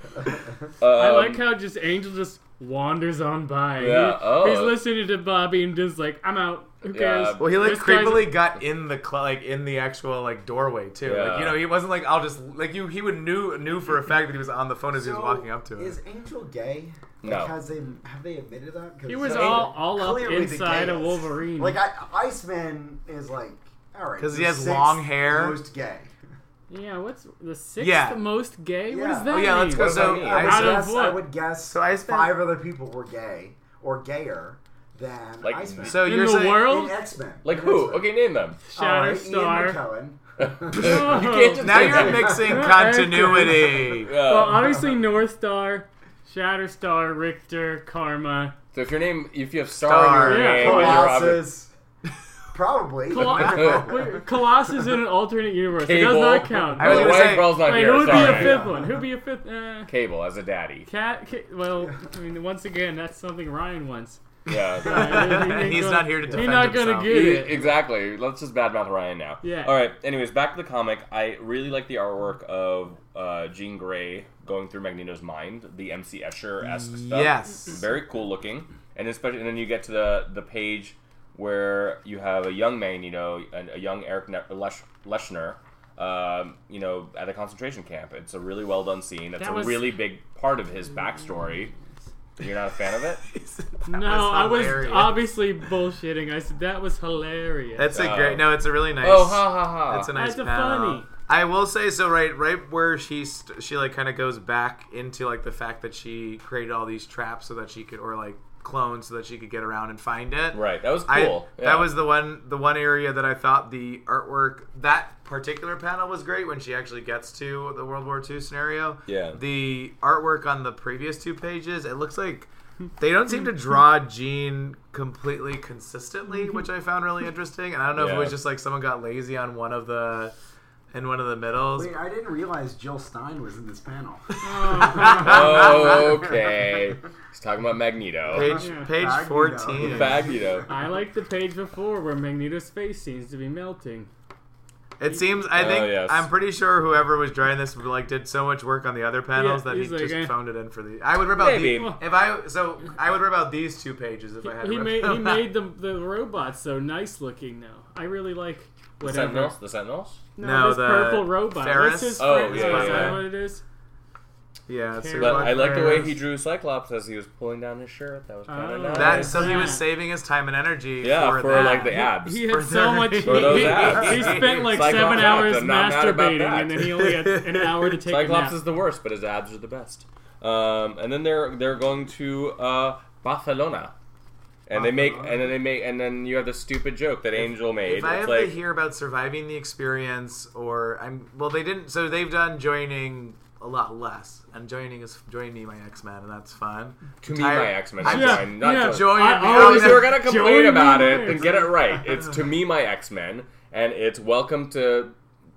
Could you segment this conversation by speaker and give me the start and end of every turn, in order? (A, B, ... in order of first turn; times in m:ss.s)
0:00.8-0:01.5 A
0:00.9-0:08.5 B
0:03.8-0:04.8 A
0:06.9-0:07.6 A
0:07.4-0:16.0 C
0:11.0-0:11.6 A
0:14.9-0:26.1 D
0:17.2-0:17.6 A
0:19.1-0:21.8 B
0:19.2-0:19.7 A
0:24.2-0:25.6 C
0:26.7-0:31.3 B
0:27.8-0:28.2 C
0:28.9-0:38.1 D
0:29.2-0:30.9 C
0:29.7-0:30.7 A
0:31.7-0:32.5 C
0:35.4-0:36.0 A
0:35.8-0:36.8 C
0:36.0-0:37.0 B
0:37.4-0:38.6 A
0:38.6-0:39.8 B
0:38.7-0:41.2 D
0:40.4-0:42.4 A
0:40.7-0:48.6 B
0:41.6-0:44.2 C
0:42.0-0:42.8 D
0:44.0-0:44.8 A
0:48.7-0:51.5 A
0:49.8-0:50.6 C
0:50.2-0:51.1 B
0:50.4-0:51.7 D
0:52.5-0:54.2 D
0:53.1-0:59.9 B
0:53.4-0:53.9 A
0:55.8-0:58.6 A
0:56.8-0:58.4 C
0:58.1-0:59.0 D
0:59.9-1:00.9 A
1:00.9-1:04.2 B
1:04.5-1:05.5 A
1:04.8-1:07.6 B
1:04.9-1:07.5 C
1:07.0-1:31.7 A
1:09.4-1:09.8 B
1:16.8-1:17.8 C
1:29.4-1:29.9 B
1:32.4-1:33.2 A
1:33.2-1:35.3 C
1:33.9-1:38.0 B
1:37.8-2:10.4 C
1:37.9-1:40.1 A
1:40.1-1:41.1 B
1:50.5-1:52.0 A
1:59.1-1:59.4 A
2:07.9-2:08.4 A
2:10.9-2:11.9 C
2:11.8-2:16.8 D
2:14.4-2:15.9 B
2:14.8-2:15.8 C
2:15.0-2:18.5 A
2:18.3-2:20.3 C
2:18.3-2:20.7 D
2:18.5-2:18.9 B
2:19.8-2:20.7 A
2:20.7-2:24.1 B
2:25.0-2:35.5 C
2:25.5-2:26.3 A
2:29.3-2:30.4 B
2:31.3-2:32.0 A
2:31.6-2:32.0 B
2:34.5-2:39.6 B
2:39.0-2:40.2 A
2:40.4-2:43.6 B
2:40.4-2:43.3 C
2:42.2-2:43.2 A
2:44.7-2:46.2 C
2:44.9-2:46.1 B
2:45.2-2:49.7 A
2:48.5-2:49.9 B
2:48.9-2:55.2 C
2:51.0-2:52.5 A
2:51.5-2:58.6 B
2:53.2-2:57.0 A
2:57.0-2:57.8 C
2:58.1-3:03.9 A
3:04.7-3:08.6 A
3:04.8-3:05.5 D
3:07.4-3:20.2 C
3:17.2-3:25.2 A
3:18.0-3:21.7 B